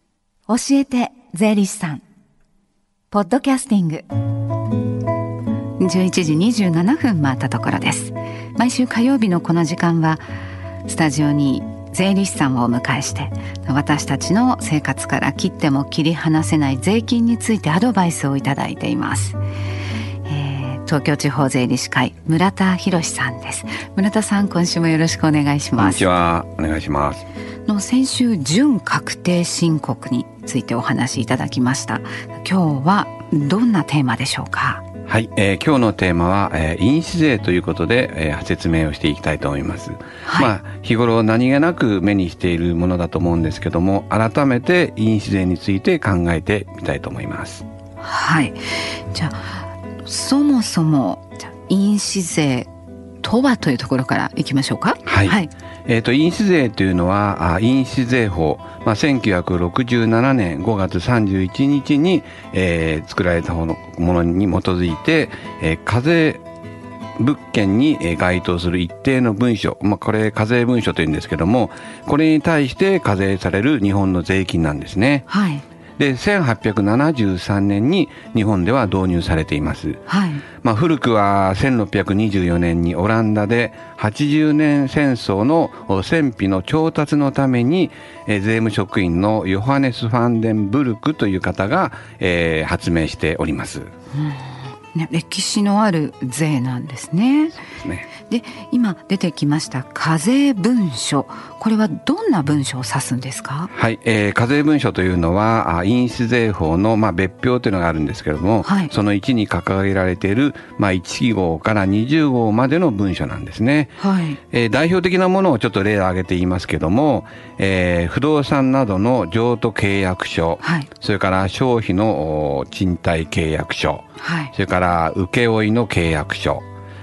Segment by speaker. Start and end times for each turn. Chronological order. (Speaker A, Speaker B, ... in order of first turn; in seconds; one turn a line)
Speaker A: 0.5-2.0
Speaker A: 3.1-4.1
Speaker A: 5.8-10.2
Speaker A: 10.9-19.4
Speaker A: 20.3-26.1
Speaker B: 25.8-27.3
Speaker A: 27.7-34.8
Speaker B: 35.1-47.6
Speaker A: 40.3-40.5
Speaker A: 48.0-52.7
Speaker A: 53.2-55.5
Speaker B: 55.1-55.4
Speaker B: 55.9-66.4
Speaker B: 67.2-75.3
Speaker A: 75.3-75.6
Speaker B: 76.0-80.0
Speaker A: 80.1-80.4
Speaker B: 80.6-93.9
Speaker A: 94.2-97.6
Speaker B: 97.8-98.1
Speaker A: 98.2-103.7
Speaker B: 103.7-114.0
Speaker A: 108.6-108.9
Speaker A: 114.0-114.4
Speaker B: 114.5-126.6
Speaker A: 120.6-120.9
Speaker A: 124.2-124.5